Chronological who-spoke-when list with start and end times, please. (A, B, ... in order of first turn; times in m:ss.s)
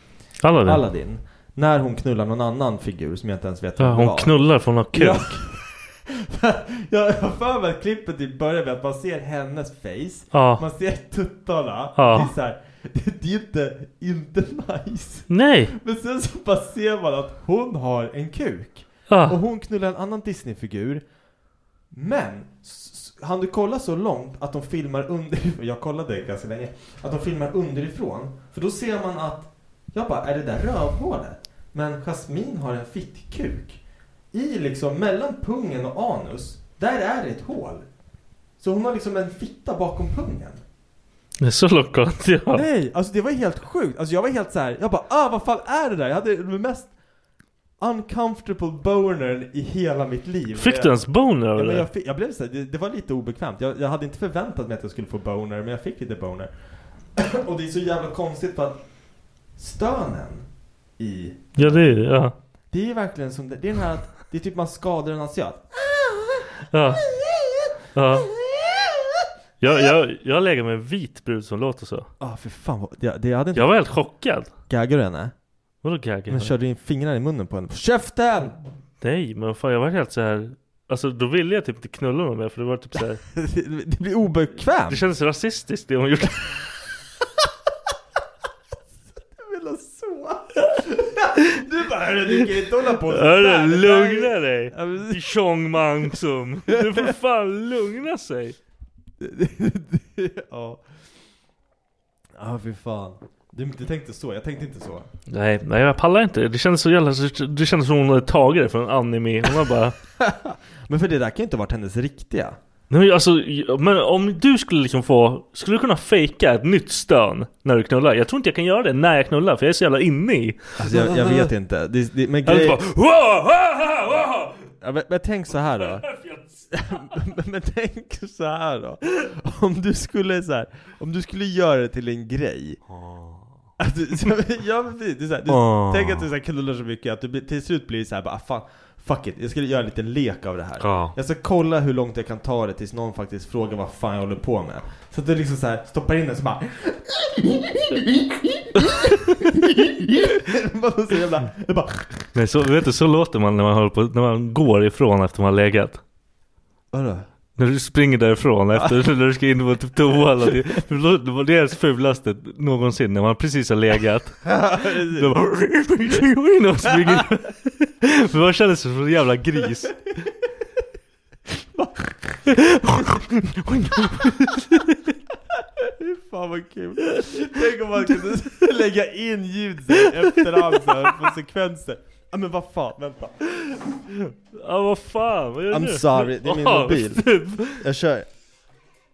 0:00.4-0:00.8 A
0:00.6-0:21.0 B
0:03.8-0:05.4 A
0:10.3-0:10.6 A
0:12.0-0:12.3 A
0:15.3-0:15.7 A
0:19.1-0:19.4 A
0:21.9-0:33.8 B
0:34.3-0:37.9 B
0:38.6-0:40.6 B
0:41.4-0:42.6 A
0:42.5-0:46.9 B
0:47.8-0:51.0 B
0:50.6-0:51.9 A
0:51.5-0:56.5 B
0:57.2-0:58.8 B
0:59.6-1:02.0 B
1:01.6-1:02.4 A
1:02.7-1:06.2 B
1:06.7-1:07.0 A
1:07.1-1:07.6 B
1:08.0-1:08.3 A
1:09.6-1:12.1 A
1:12.2-1:13.8 B
1:13.6-1:14.5 A
1:14.7-1:15.3 B
1:15.8-1:16.6 A
1:16.3-1:18.6 B
1:19.0-1:23.2 A
1:23.3-1:25.0 B
1:24.9-1:26.7 A
1:29.3-1:35.2 B
1:32.8-1:38.6 A
1:36.7-1:37.1 B
1:39.2-1:40.8 B
1:42.4-1:45.1 B
1:45.3-1:50.0 A
1:50.2-1:52.6 B
1:52.9-2:01.5 A
2:00.8-2:02.8 B
2:02.4-2:04.7 A
2:04.8-2:06.1 B
2:05.8-2:07.1 A
2:06.7-2:12.8 B
2:12.9-2:13.5 A
2:13.8-2:32.2 B
2:15.5-2:16.3 A
2:20.8-2:21.2 A
2:32.4-2:36.0 A
2:36.9-2:37.2 B
2:37.6-2:50.2 A
2:44.4-2:45.3 B
2:51.8-2:53.2 B
2:52.5-2:55.1 A
2:55.8-3:03.7 B
2:58.0-2:58.3 A
3:00.0-3:00.9 A
3:04.1-3:07.8 A
3:05.7-3:08.3 B